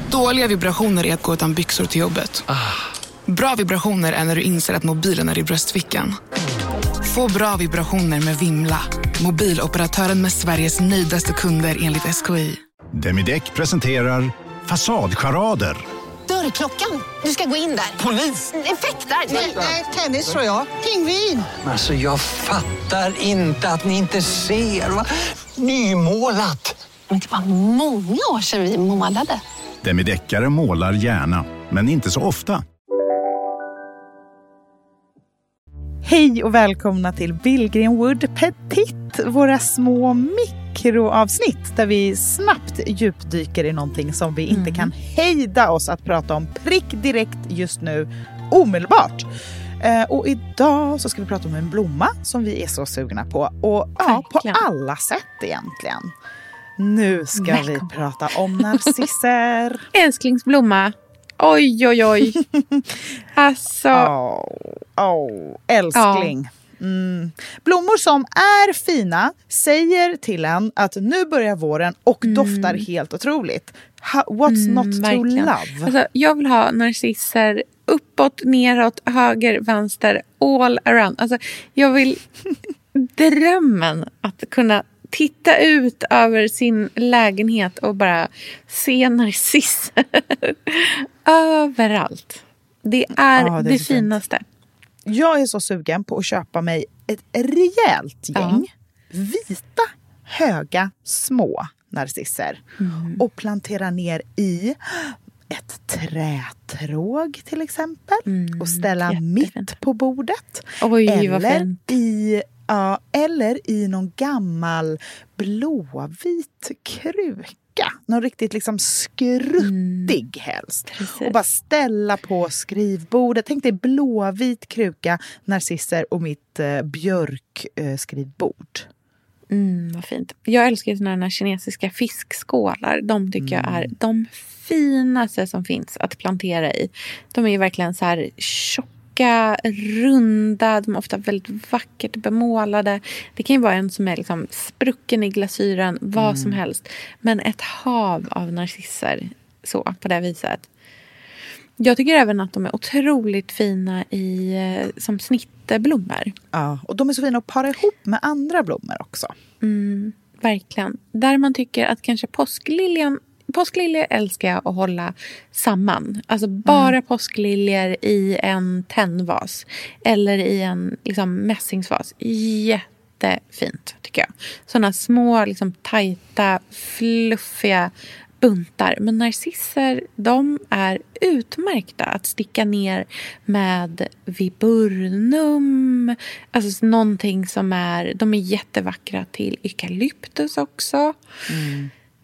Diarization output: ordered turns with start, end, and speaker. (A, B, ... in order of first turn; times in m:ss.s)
0:00.1-0:02.4 A
0:03.3-0:06.1 A
0:07.0-0:12.6 A
0:13.0-0:15.8 B
0:16.3-0:19.6 C
0:19.3-0:21.4 D
0:21.6-0:25.0 E
0:25.6-0:26.7 E
0:27.1-0:29.4 C
0:29.8-0:32.6 B
0:36.0-0:49.3 F
0:44.5-0:44.9 G
0:49.8-0:56.1 F
0:54.0-0:54.6 G
0:56.8-0:59.8 F
0:57.4-0:57.9 G
0:58.6-0:58.9 G
0:59.9-1:02.4 G
1:03.3-1:04.1 G
1:03.9-1:15.9 F
1:05.9-1:06.3 G
1:12.2-1:12.8 G
1:14.4-1:22.2 G
1:22.9-1:34.4 G
1:33.3-1:34.2 F
1:35.0-1:42.6 F
1:38.3-1:38.6 G
1:42.8-1:43.2 G
1:43.2-2:08.9 F
1:48.2-1:49.7 G
1:50.8-1:51.9 G
1:59.6-2:00.2 G
2:00.9-2:01.3 G
2:09.5-2:30.7 G
2:13.4-2:13.9 F
2:26.2-2:26.6 F
2:31.8-2:36.3 G
2:36.5-2:39.3 F
2:39.6-3:11.2 G
2:46.6-2:47.0 F
3:11.5-3:11.9 F